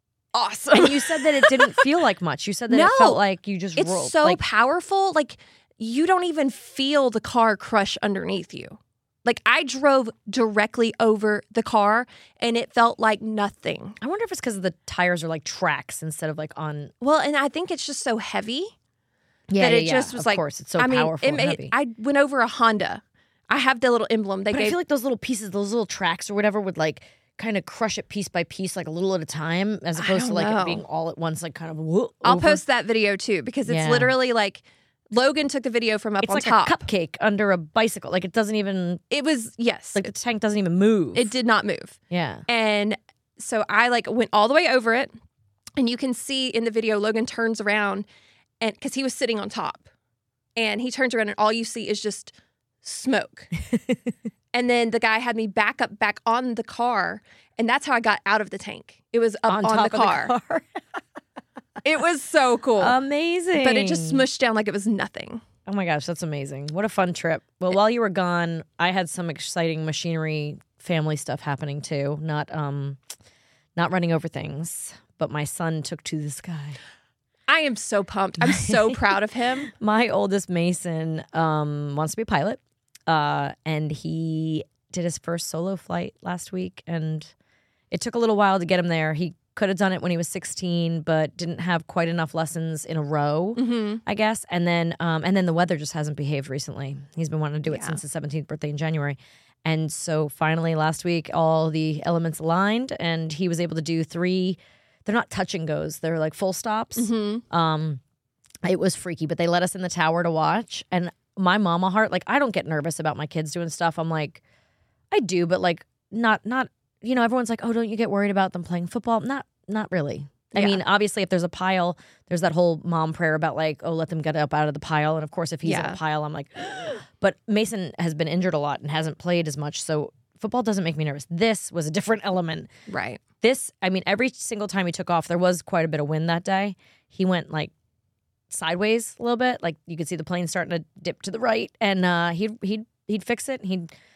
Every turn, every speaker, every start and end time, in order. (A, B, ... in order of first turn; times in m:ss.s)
0:00.3-0:01.9 A
0:00.7-0:04.4 B
0:02.7-0:03.2 A
0:03.8-0:14.0 A
0:14.0-0:16.9 B
0:17.0-0:18.7 A
0:19.5-0:21.8 B
0:19.6-0:24.8 A
0:24.5-0:32.6 B
0:30.0-0:30.8 A
0:32.2-0:36.8 A
0:33.7-0:34.1 B
0:36.2-0:39.0 B
0:39.1-0:40.0 A
0:39.9-0:41.3 B
0:41.2-0:45.1 A
0:42.1-0:42.4 B
0:45.8-0:48.1 A
0:48.6-0:49.9 A
0:50.6-0:53.5 A
0:54.5-1:00.3 A
0:59.5-1:00.7 B
1:01.8-1:03.0 A
1:02.8-1:04.2 B
1:03.5-1:05.4 A
1:05.7-1:13.0 B
1:13.8-1:16.8 B
1:17.5-1:19.7 A
1:18.4-1:19.0 B
1:19.7-1:27.3 B
1:27.9-1:48.0 B
1:33.6-1:34.0 A
1:37.7-1:38.0 A
1:47.0-1:47.4 A
1:48.6-1:54.4 B
1:55.1-2:12.7 B
2:00.5-2:00.8 A
2:05.6-2:06.0 A
2:12.9-2:13.2 A
2:13.4-2:17.7 B
2:18.5-2:23.9 B